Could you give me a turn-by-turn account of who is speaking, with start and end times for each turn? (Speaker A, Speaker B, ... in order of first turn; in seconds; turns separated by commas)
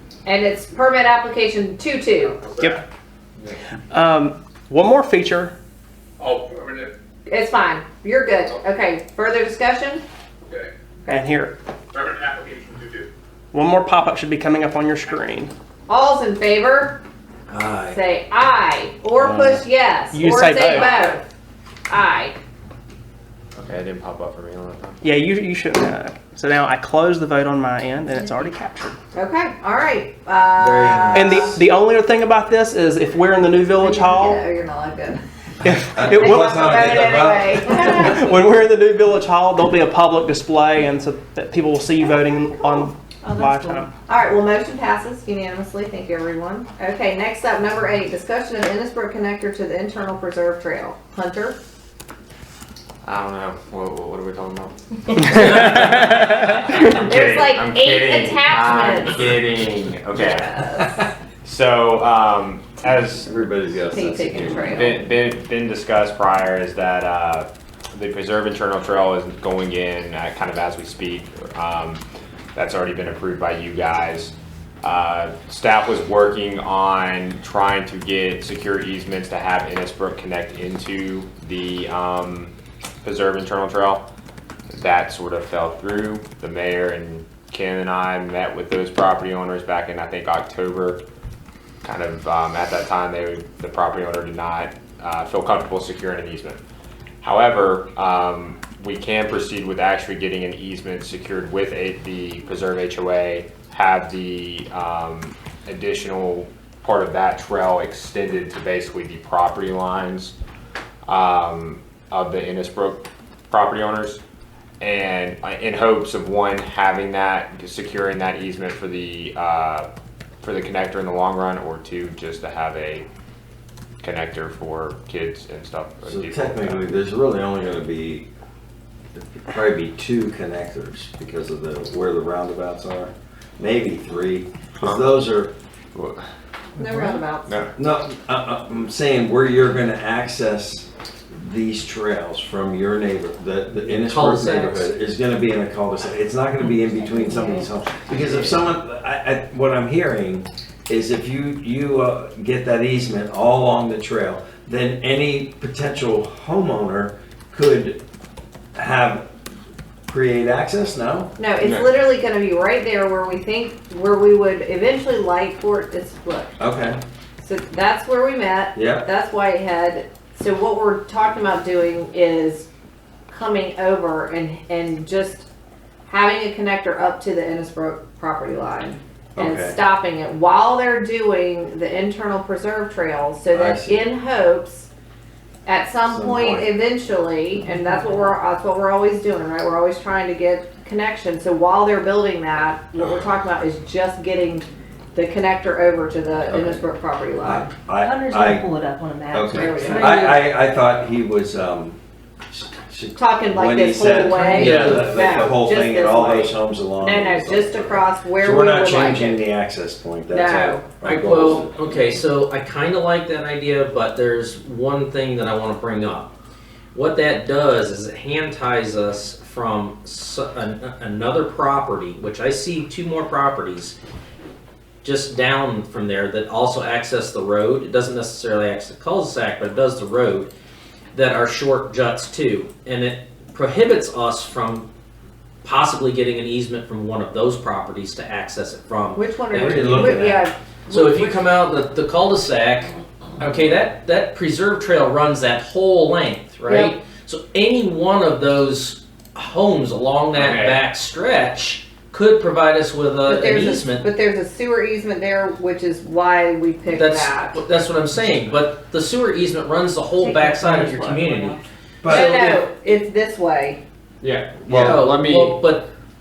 Speaker A: 0.2-2.4, Speaker B: 2.2-2.8, Speaker C: 2.5-2.8, Speaker C: 3.9-5.5, Speaker B: 6.2-7.0, Speaker A: 7.2-10.0, Speaker B: 10.5-10.7, Speaker C: 11.1-11.5, Speaker B: 11.9-13.1, Speaker C: 13.5-15.5, Speaker A: 15.9-17.0, Speaker D: 17.5-18.0, Speaker A: 17.9-21.2, Speaker E: 19.2-19.6, Speaker C: 20.1-21.1, Speaker A: 21.9-22.4, Speaker E: 23.5-25.0, Speaker C: 25.0-28.9, Speaker A: 29.1-31.6, Speaker D: 30.6-31.4, Speaker C: 31.1-34.4, Speaker A: 33.7-35.2, Speaker C: 35.6-43.9, Speaker F: 35.9-38.0, Speaker A: 36.1-38.5, Speaker A: 44.0-51.5, Speaker E: 53.0-60.9, Speaker C: 55.3-56.1, Speaker A: 57.0-59.4, Speaker A: 60.1-61.0, Speaker E: 61.4-63.3, Speaker F: 63.2-64.7, Speaker A: 63.9-65.0, Speaker E: 64.7-72.0, Speaker E: 72.5-84.1, Speaker E: 84.7-91.0, Speaker E: 91.8-96.6, Speaker E: 97.2-110.3, Speaker E: 111.0-114.2, Speaker E: 114.8-119.9, Speaker E: 120.4-123.1, Speaker E: 124.0-126.9, Speaker F: 126.0-128.3, Speaker F: 129.1-135.5, Speaker E: 134.8-135.0, Speaker E: 135.9-136.2, Speaker A: 136.8-137.5, Speaker E: 137.4-137.7, Speaker F: 137.8-158.0, Speaker D: 144.0-145.0, Speaker G: 146.9-147.7, Speaker E: 148.2-148.5, Speaker F: 158.7-159.2, Speaker F: 160.1-161.3, Speaker A: 161.4-166.6, Speaker E: 161.6-161.9, Speaker F: 166.6-167.0, Speaker A: 167.4-172.7, Speaker F: 168.7-169.1, Speaker A: 173.3-175.5, Speaker A: 176.1-184.9, Speaker F: 179.3-179.8, Speaker F: 183.5-184.1, Speaker A: 185.7-197.7, Speaker F: 186.0-186.7, Speaker G: 187.9-188.3, Speaker F: 196.5-196.8, Speaker F: 197.4-198.8, Speaker G: 198.0-200.1, Speaker F: 199.3-202.0, Speaker A: 199.5-200.4, Speaker F: 202.5-212.2, Speaker A: 203.2-209.4, Speaker G: 204.3-204.8, Speaker A: 210.3-210.9, Speaker D: 211.0-216.3, Speaker D: 216.9-223.9, Speaker D: 225.0-230.5, Speaker D: 231.1-234.9, Speaker D: 235.6-240.2, Speaker A: 239.1-241.4, Speaker F: 239.5-240.4, Speaker D: 240.9-254.1, Speaker A: 246.7-246.9, Speaker E: 250.3-250.8, Speaker A: 253.2-257.6, Speaker D: 256.9-262.6, Speaker F: 262.0-262.4, Speaker A: 262.1-263.8, Speaker E: 264.2-265.6, Speaker F: 264.7-264.9, Speaker D: 264.7-265.9